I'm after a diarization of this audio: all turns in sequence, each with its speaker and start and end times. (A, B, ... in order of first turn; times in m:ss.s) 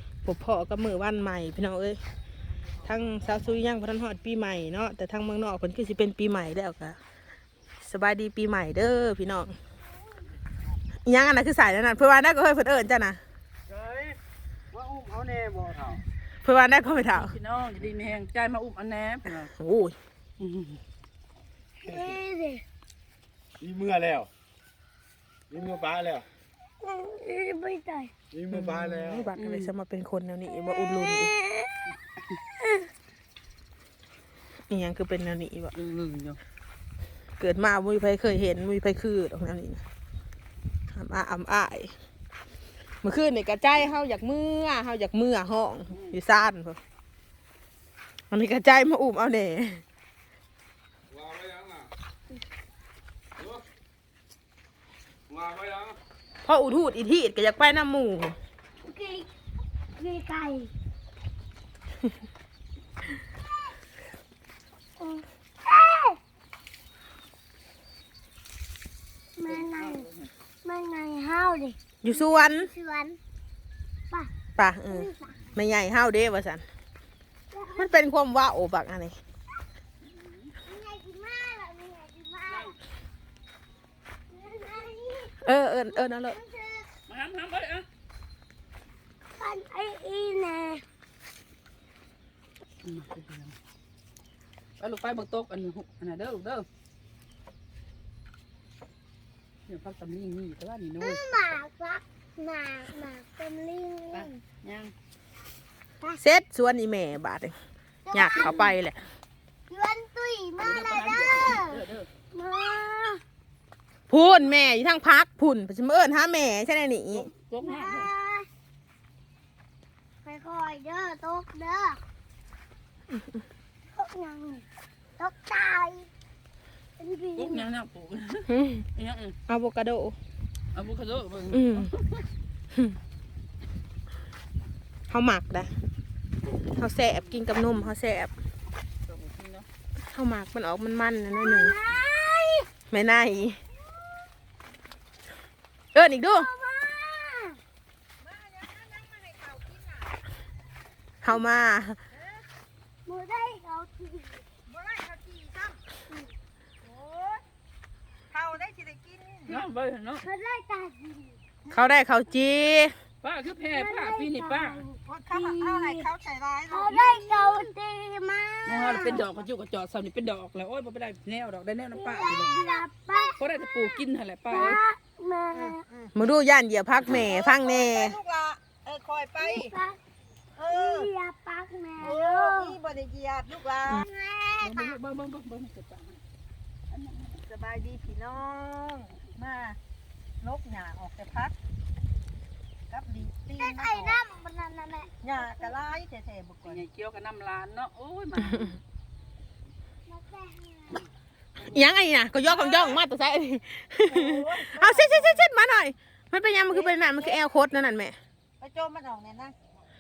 0:00.2-0:02.0 A
0:02.8-0:07.0 A
0:07.8-0:09.6 A
0:11.0-0:13.2 A
0:14.8-0:15.8 B
0:16.4-0:17.4 A
0:16.9-0:19.5 C
0:19.5-0:20.0 A
0:20.4-0:20.8 C
0:21.8-0:22.6 D
0:23.6-0:24.3 B
0:25.5-0:26.2 B
0:26.8-0:28.1 D
0:28.4-0:29.0 B
0:28.5-0:31.4 A
0:29.4-0:29.7 C
0:30.7-0:31.7 D
0:34.7-0:35.7 A
0:35.7-0:36.4 C
0:37.4-0:39.8 A
0:40.9-0:41.9 A
0:43.0-0:46.8 A
0:48.3-0:49.8 A
0:51.2-0:51.9 B
0:55.3-0:56.0 B
0:56.4-0:58.4 A
0:58.8-0:59.3 D
1:00.0-1:00.7 D
1:05.0-1:06.2 D
1:09.4-1:10.0 D
1:09.4-1:10.3 C
1:10.6-1:13.2 D
1:12.0-1:12.7 A
1:14.6-1:16.6 A
1:15.0-1:15.3 D
1:17.5-1:17.9 D
1:17.7-1:19.2 A
1:20.1-1:20.5 C
1:20.7-1:22.8 D
1:22.5-1:22.8 C
1:24.3-1:26.9 D
1:25.4-1:26.4 A
1:27.1-1:27.9 C
1:29.4-1:30.8 D
1:32.8-1:33.6 C
1:34.8-1:36.7 C
1:39.7-1:41.2 C
1:41.0-1:44.4 D
1:44.1-1:44.9 C
1:46.2-1:47.6 A
1:48.1-1:48.7 D
1:48.1-1:49.0 A
1:49.7-1:53.2 D
1:50.6-1:52.1 C
1:54.1-1:57.3 A
1:57.1-1:58.1 C
1:57.6-1:58.5 D
2:00.2-2:02.0 D
2:03.9-2:04.6 D
2:05.2-2:06.1 D
2:07.0-2:07.7 D
2:07.4-2:09.4 C
2:08.5-2:08.9 A
2:09.5-2:10.2 A
2:10.7-2:12.2 C
2:11.5-2:11.9 A
2:15.1-2:15.7 A
2:16.7-2:18.3 A
2:19.0-2:19.7 C
2:20.1-2:21.8 A
2:21.4-2:22.7 D
2:22.9-2:23.6 A
2:25.9-2:26.5 A
2:26.3-2:27.6 D
2:28.2-2:30.2 E
2:31.2-2:32.0 A
2:32.1-2:32.4 E
2:33.1-2:34.5 D
2:34.7-2:35.8 E
2:36.8-2:37.4 E
2:38.3-2:39.6 E
2:39.5-2:40.3 C
2:40.2-2:41.4 D
2:41.7-2:43.0 A
2:43.2-2:44.8 C
2:43.7-2:46.1 D
2:45.1-2:47.7 E
2:46.7-2:49.1 D
2:48.6-2:52.8 C
2:52.0-2:53.4 D
2:53.4-2:54.8 C
2:54.5-2:55.8 D
2:55.5-2:56.1 E
2:56.2-2:58.2 A
2:57.1-2:59.8 E
2:59.4-3:00.0 D
3:00.6-3:01.1 E
3:00.7-3:02.7 D
3:02.0-3:04.1 E
3:04.1-3:05.0 D
3:04.6-3:06.2 C
3:06.9-3:07.4 C
3:07.4-3:09.8 E
3:10.4-3:11.6 E
3:12.9-3:14.2 E
3:13.6-3:15.4 D
3:15.2-3:16.8 E
3:16.6-3:18.8 C
3:20.1-3:21.0 D
3:21.6-3:28.2 A
3:22.4-3:23.0 E
3:24.0-3:25.4 E
3:26.7-3:27.5 E
3:28.6-3:29.6 E